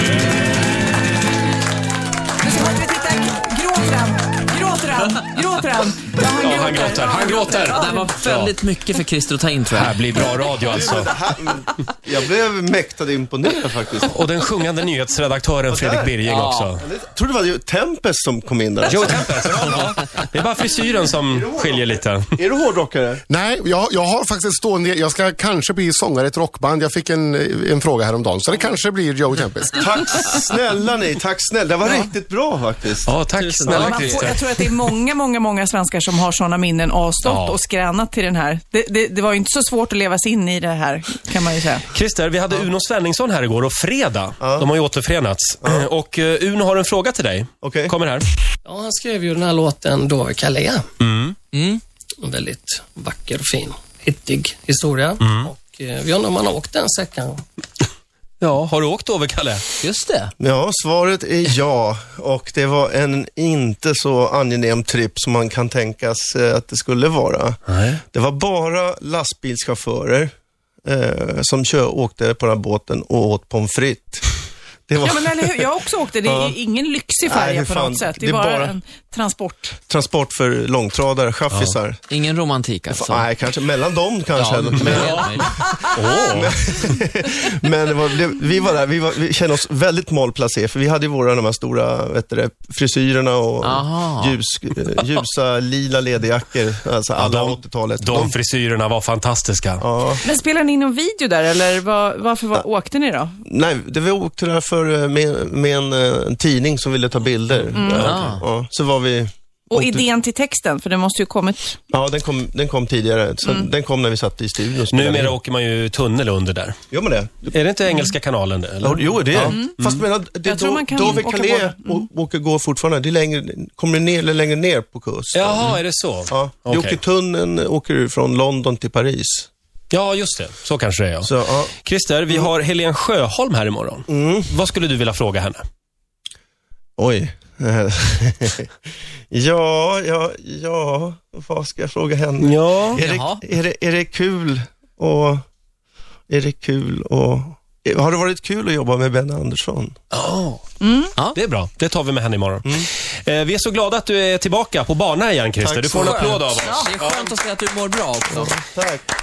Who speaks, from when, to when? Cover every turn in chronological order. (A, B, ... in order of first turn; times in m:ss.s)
0:02.4-0:08.1 A
0:06.4-0:08.6 B
0:07.4-0:10.0 C
0:09.7-0:11.1 B
0:10.7-0:14.2 D
0:14.1-0:16.9 B
0:15.7-0:16.2 D
0:16.3-0:16.7 C
0:16.8-0:19.8 D
0:18.9-0:22.3 B
0:21.3-0:23.2 D
0:23.3-0:30.2 E
0:29.8-0:33.1 D
0:33.1-0:34.6 B
0:33.4-0:34.3 C
0:33.7-0:41.9 A
0:37.2-0:37.6 B
0:41.9-0:48.3 B
0:44.4-0:44.7 D
0:47.6-0:47.9 D
0:48.6-0:50.9 F
0:51.0-0:51.4 B
0:51.5-0:51.8 C
0:52.2-0:57.4 F
0:55.2-0:55.5 B
0:58.4-0:59.6 B
0:59.8-1:00.3 C
1:00.4-1:07.6 D
1:07.7-1:08.0 B
1:08.1-1:10.3 D
1:10.8-1:14.4 D
1:14.9-1:15.6 D
1:15.0-1:19.8 A
1:16.2-1:16.6 D
1:17.2-1:18.8 D
1:19.9-1:22.0 D
1:21.5-1:21.8 B
1:22.1-1:23.3 C
1:22.9-1:25.8 D
1:24.4-1:25.6 C
1:24.7-1:26.6 B
1:26.3-1:38.4 D
1:33.6-1:34.4 C
1:37.2-1:39.8 B
1:39.8-1:40.2 D
1:40.2-1:43.4 A
1:43.4-1:50.1 D
1:47.8-1:48.1 A
1:47.9-1:48.3 B
1:48.0-1:48.4 C
1:49.7-1:51.8 A
1:51.9-1:55.4 D
1:54.9-1:56.8 B
1:56.9-1:57.6 D
1:57.5-2:00.0 B
1:58.8-2:09.5 D
1:59.4-1:59.7 A
2:00.4-2:02.0 A
2:05.3-2:07.0 B
2:09.9-2:15.6 B
2:11.2-2:11.7 D
2:14.1-2:14.5 D
2:17.0-2:18.7 D
2:19.3-2:25.4 D
2:22.4-2:23.0 B
2:23.0-2:23.4 C
2:26.3-2:30.0 D
2:30.1-2:30.6 B
2:30.8-2:31.1 A
2:31.3-2:37.3 B
2:35.6-2:36.4 D
2:36.0-2:38.5 C
2:36.6-2:36.9 A
2:38.3-2:39.0 D